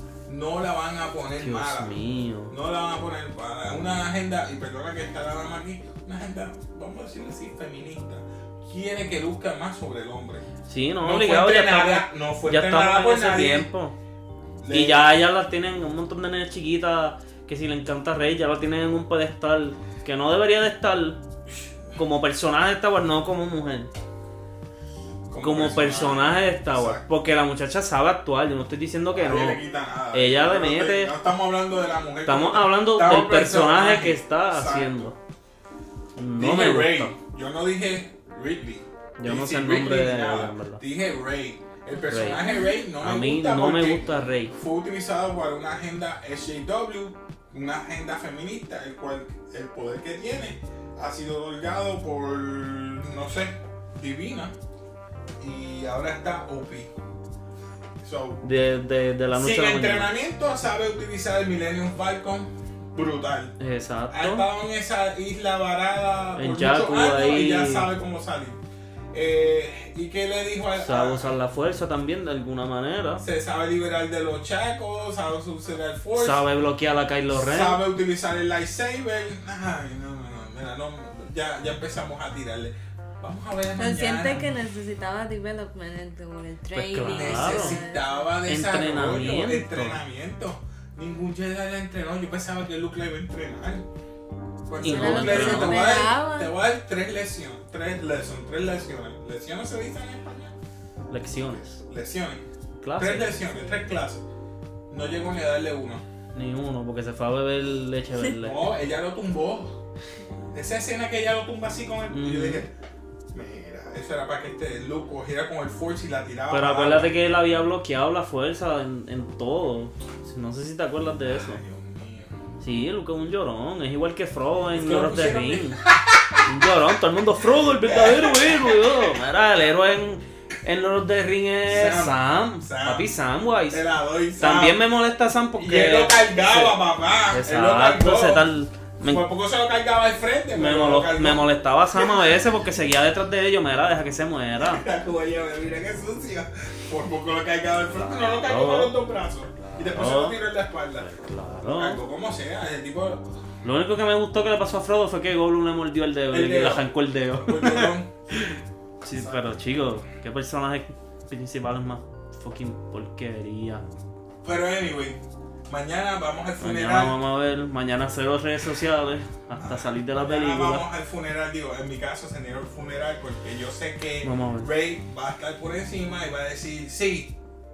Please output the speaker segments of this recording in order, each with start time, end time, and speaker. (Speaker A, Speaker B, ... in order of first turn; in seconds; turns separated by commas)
Speaker A: 0.2-1.9, Speaker B: 1.4-2.5, Speaker A: 2.5-10.4, Speaker B: 10.7-13.9, Speaker A: 11.0-13.7, Speaker A: 14.6-15.1, Speaker B: 14.7-21.2, Speaker B: 21.9-23.9, Speaker A: 25.3-27.1, Speaker B: 25.4-29.6, Speaker A: 29.1-35.1, Speaker B: 30.1-31.1, Speaker B: 32.2-35.2, Speaker B: 36.1-37.1, Speaker A: 36.4-54.5, Speaker B: 39.2-40.8, Speaker B: 42.1-42.4, Speaker C: 42.3-42.7, Speaker B: 43.0-44.5, Speaker A: 55.4-56.9, Speaker A: 58.0-58.4, Speaker B: 58.4-60.1, Speaker A: 59.3-63.5, Speaker B: 63.6-64.5, Speaker A: 64.1-68.6, Speaker B: 66.4-67.9, Speaker A: 69.1-71.3, Speaker B: 70.8-73.2, Speaker A: 73.2-76.4, Speaker B: 76.2-77.8, Speaker A: 77.3-84.5, Speaker C: 83.8-88.2, Speaker B: 86.7-87.8, Speaker A: 87.0-93.8, Speaker B: 88.5-90.0, Speaker A: 94.7-100.5, Speaker B: 94.8-96.0, Speaker C: 94.8-96.5, Speaker B: 101.1-101.8, Speaker A: 101.8-102.4, Speaker B: 102.8-103.4, Speaker A: 103.0-104.2, Speaker A: 104.9-106.0, Speaker B: 106.3-108.7, Speaker A: 108.3-109.8, Speaker A: 110.5-112.7, Speaker B: 112.1-112.6, Speaker A: 113.3-117.2, Speaker B: 116.5-121.6, Speaker A: 121.2-122.3, Speaker B: 122.6-125.8, Speaker A: 124.7-126.4, Speaker B: 126.4-133.8, Speaker A: 127.5-129.2, Speaker A: 131.7-133.1, Speaker A: 133.7-134.8, Speaker B: 134.4-136.8, Speaker A: 135.6-138.5, Speaker B: 137.3-139.2, Speaker A: 139.0-142.4, Speaker B: 140.5-144.8, Speaker A: 144.6-151.1, Speaker B: 147.9-148.9, Speaker B: 149.6-150.4, Speaker B: 151.0-152.0, Speaker A: 151.6-153.2, Speaker B: 153.6-163.8, Speaker A: 156.3-158.1, Speaker A: 164.4-167.1, Speaker B: 166.6-170.8, Speaker A: 169.6-177.3, Speaker B: 174.2-174.7